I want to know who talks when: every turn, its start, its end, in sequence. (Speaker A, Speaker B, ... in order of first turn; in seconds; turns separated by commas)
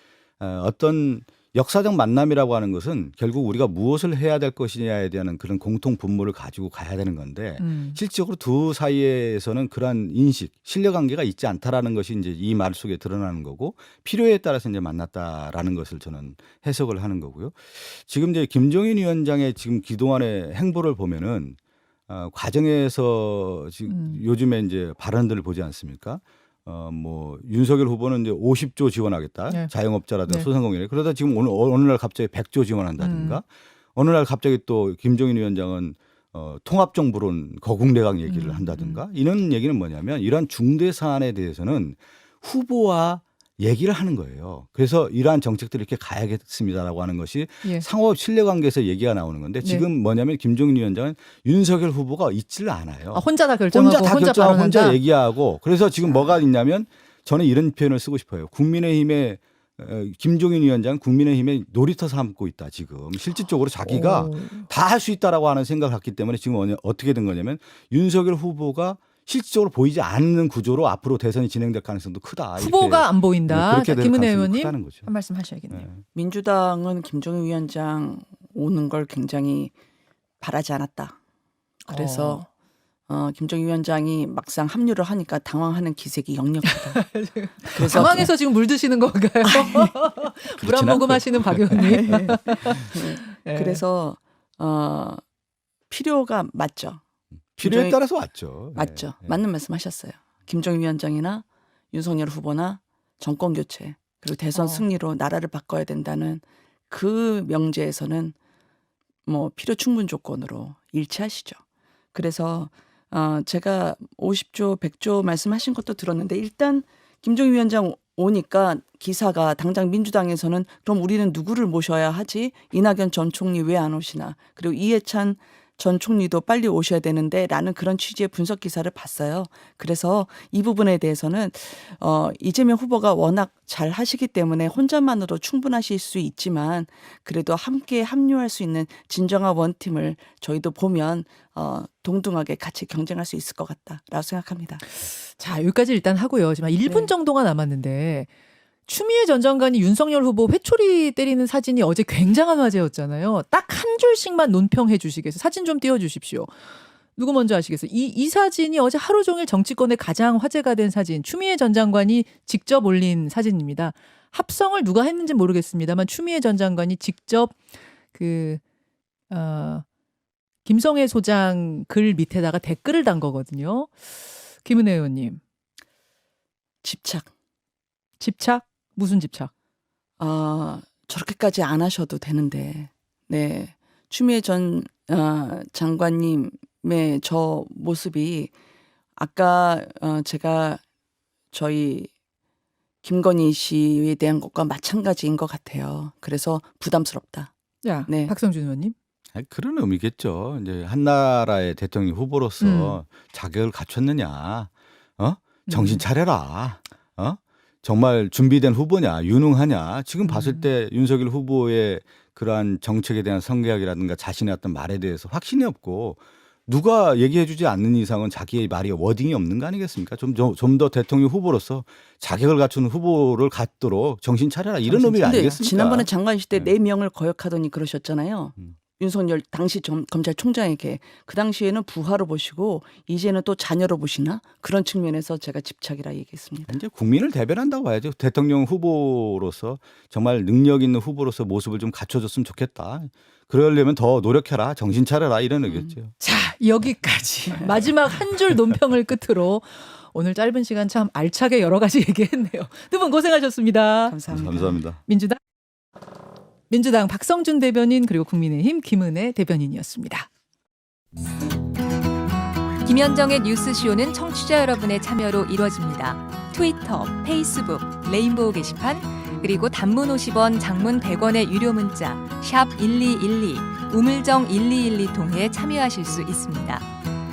Speaker A: 0.4-75.1, Speaker B: 7.6-8.0, Speaker B: 23.9-24.2, Speaker B: 33.0-33.4, Speaker B: 38.3-39.0, Speaker B: 53.1-55.0, Speaker B: 63.9-64.7, Speaker B: 72.6-75.9, Speaker A: 75.7-76.0, Speaker C: 76.1-79.7, Speaker C: 80.4-81.2, Speaker B: 81.9-82.5, Speaker C: 81.9-82.5, Speaker C: 83.1-87.1, Speaker B: 86.7-93.8, Speaker C: 87.7-88.3, Speaker C: 89.4-89.9, Speaker A: 90.6-92.8, Speaker C: 91.7-95.2, Speaker C: 95.9-97.0, Speaker C: 97.6-98.0, Speaker A: 97.6-99.4, Speaker C: 98.7-108.3, Speaker B: 104.5-104.8, Speaker C: 109.3-111.6, Speaker C: 112.1-144.8, Speaker B: 145.0-148.3, Speaker B: 148.9-167.6, Speaker B: 168.1-168.6, Speaker B: 169.3-169.9, Speaker B: 170.7-175.4, Speaker C: 176.8-177.3, Speaker B: 178.2-179.5, Speaker C: 180.2-188.5, Speaker C: 189.2-190.8, Speaker C: 191.5-192.1, Speaker C: 193.0-197.5, Speaker B: 197.8-198.9, Speaker C: 198.1-198.3, Speaker A: 199.3-226.7, Speaker B: 202.6-203.0, Speaker B: 205.7-206.0, Speaker B: 210.2-210.7, Speaker B: 224.9-225.6, Speaker C: 225.2-236.8, Speaker A: 236.7-246.1, Speaker C: 245.7-245.9, Speaker B: 246.2-254.2, Speaker C: 254.1-254.8, Speaker A: 254.3-255.0, Speaker B: 255.1-255.4, Speaker B: 256.7-260.3, Speaker D: 262.8-276.9